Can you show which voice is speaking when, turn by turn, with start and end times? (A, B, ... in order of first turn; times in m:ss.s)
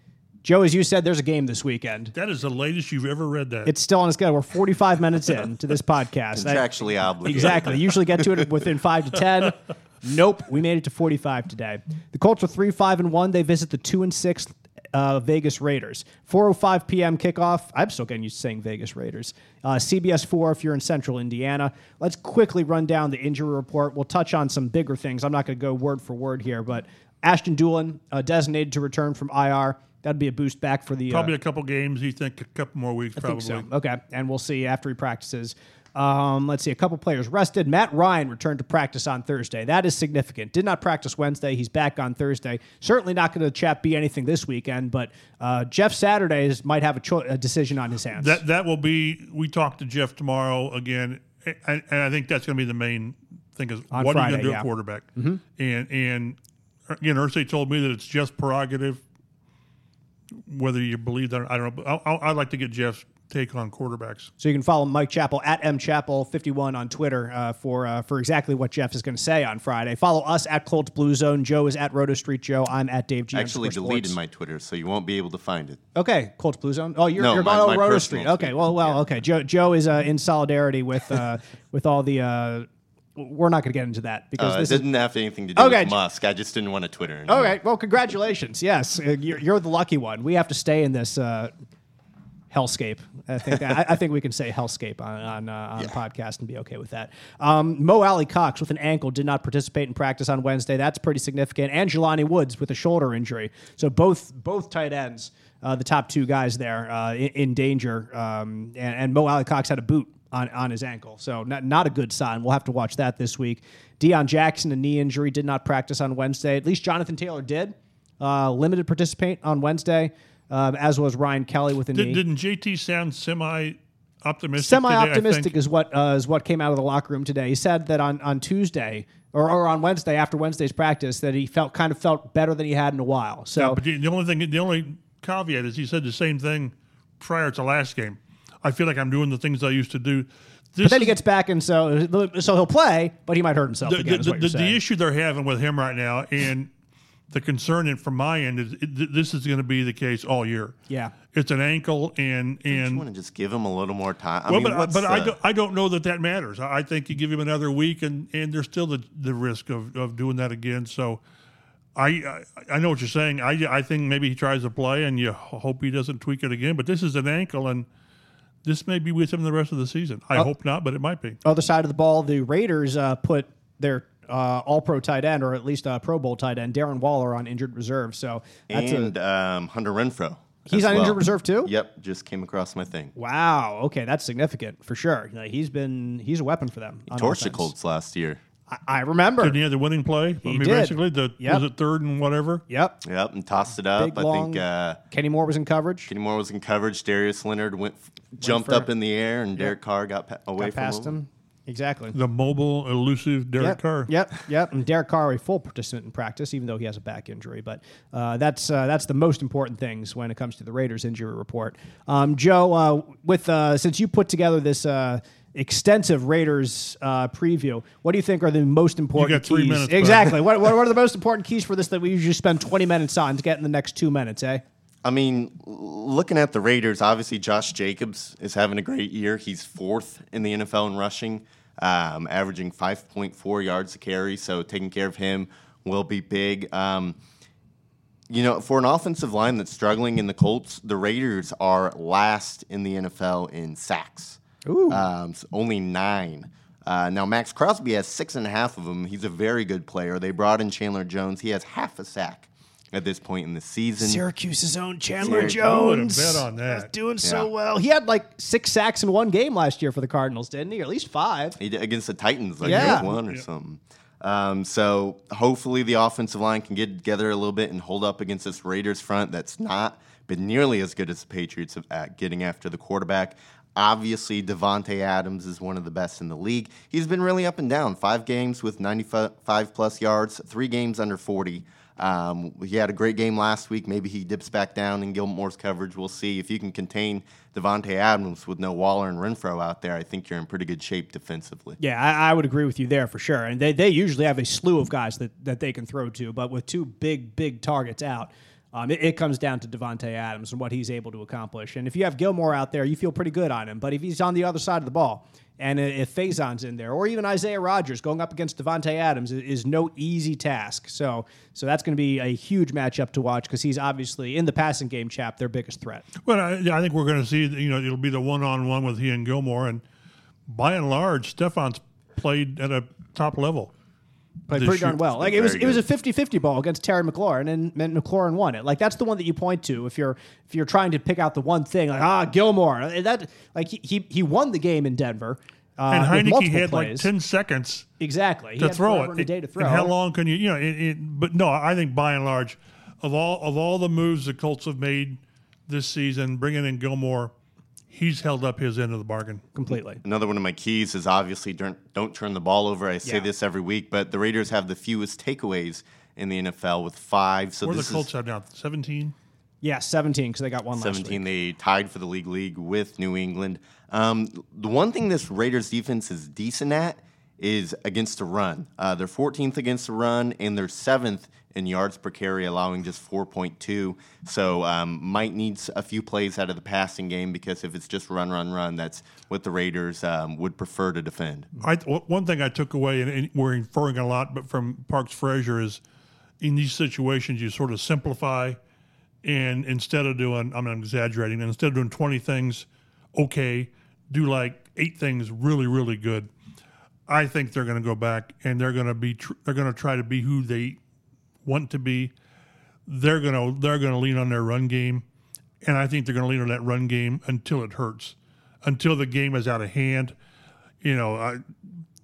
0:00.4-0:02.1 A
0:02.1-0:03.7 B
0:03.6-0:06.7 A
0:06.3-0:08.4 C
0:07.2-0:31.3 A
0:31.1-0:33.6 B
0:33.2-0:48.4 A
0:48.1-0:56.4 B
0:53.9-0:55.4 A
0:56.9-0:59.0 B
1:00.5-1:04.3 B
1:04.4-1:14.2 A
1:13.3-1:15.8 C
1:15.9-1:24.8 A
1:17.2-1:19.1 C
1:24.4-1:27.6 C
1:25.6-1:25.9 A
1:27.3-1:31.5 A
1:32.5-2:02.2 A
2:01.9-2:05.5 B
2:04.6-2:13.8 A
2:13.6-2:21.1 B
2:20.8-2:24.8 A
2:23.9-2:26.7 B
2:27.3-2:30.7 B
2:30.9-2:31.1 A
2:31.3-2:33.0 B
2:32.7-2:35.4 C
2:34.5-2:41.2 B
2:42.0-2:47.8 B
2:48.6-2:51.4 B
2:51.4-2:59.1 A
2:58.7-3:03.1 C
3:00.7-3:01.7 A
3:03.2-3:07.7 A
3:07.1-3:08.4 C
3:08.7-3:09.6 A
3:09.4-3:12.6 B
3:10.4-3:11.6 A
3:12.7-3:13.0 A
3:13.0-3:15.0 C
3:14.0-3:16.1 A
3:16.1-3:21.2 C
3:18.4-3:18.9 A
3:20.6-3:22.2 A
3:22.1-3:24.1 B
3:23.6-3:44.6 A
3:39.2-3:40.4 B
3:45.0-3:57.2 C
3:58.3-4:14.2 C
4:04.6-4:05.0 A
4:14.0-4:21.6 A
4:15.2-4:16.9 B
4:15.2-4:15.6 C
4:17.2-4:17.5 C
4:21.6-4:51.8 C
4:22.6-4:23.1 A
4:22.6-4:23.4 B
4:51.8-5:16.0 A
5:16.2-5:19.8 B
5:20.5-5:23.7 B
5:24.5-5:37.1 A
5:24.5-5:24.9 B
5:25.2-5:25.8 C
5:35.9-5:37.9 B
5:38.0-5:39.9 A
5:38.6-5:47.3 B
5:47.9-5:49.4 B
5:49.5-5:50.0 A
5:50.0-5:58.1 C
5:57.6-5:59.1 B
5:59.6-6:01.2 A
6:00.8-6:21.5 C
6:21.6-6:25.8 B
6:26.4-6:28.6 B
6:29.2-6:36.3 B
6:37.1-6:40.8 B
6:41.4-6:42.1 B
6:42.9-6:45.0 B
6:45.6-6:50.1 B
6:50.8-6:51.4 B